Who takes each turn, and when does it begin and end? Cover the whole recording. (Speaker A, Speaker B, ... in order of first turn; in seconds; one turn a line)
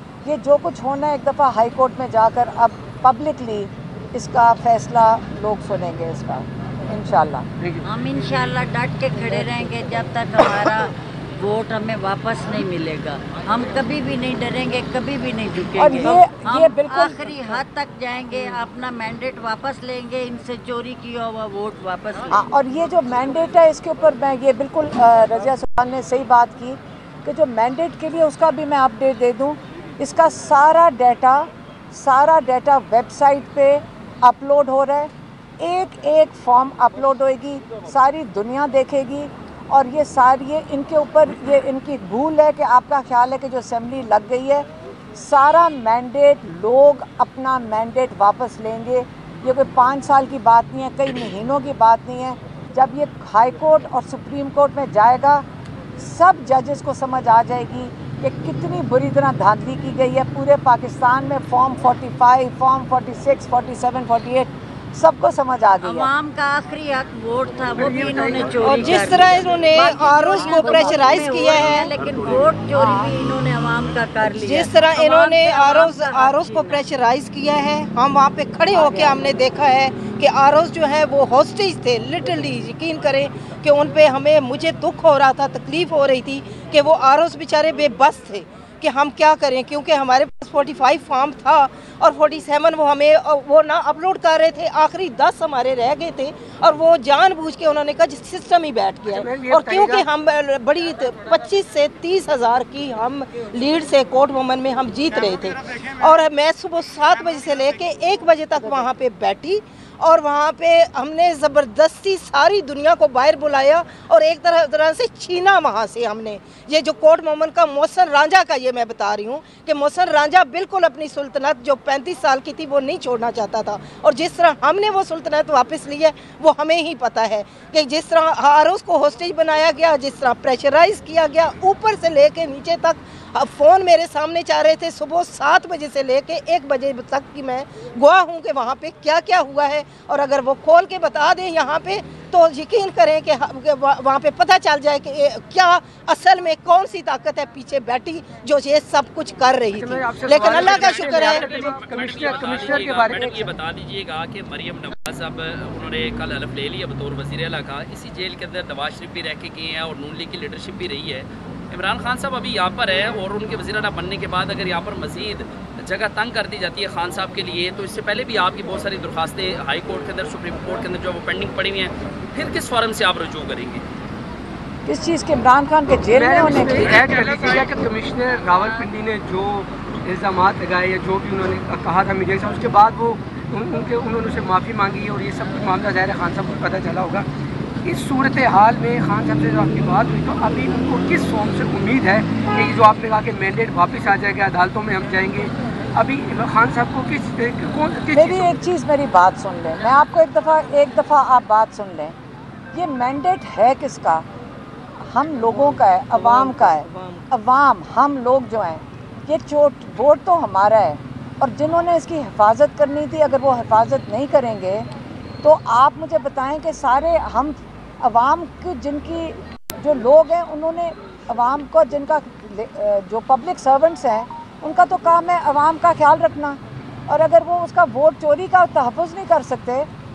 Speaker A: 0.2-7.5
Speaker B: 7.6-7.9
Speaker C: 7.8-22.4
Speaker A: 15.8-17.2
Speaker A: 22.3-55.4
Speaker A: 56.0-66.1
Speaker C: 65.8-76.8
Speaker B: 67.7-68.9
Speaker D: 68.6-71.9
Speaker A: 72.7-73.1
Speaker D: 74.3-151.5
Speaker C: 78.7-79.2
Speaker B: 99.0-100.1
Speaker B: 149.7-153.5
Speaker E: 151.3-173.8
Speaker A: 174.8-177.0
Speaker B: 176.1-187.3
Speaker B: 187.8-198.5
Speaker A: 198.1-202.1
Speaker A: 202.7-204.3
Speaker A: 205.0-214.9
Speaker D: 206.1-207.3
Speaker A: 215.4-229.9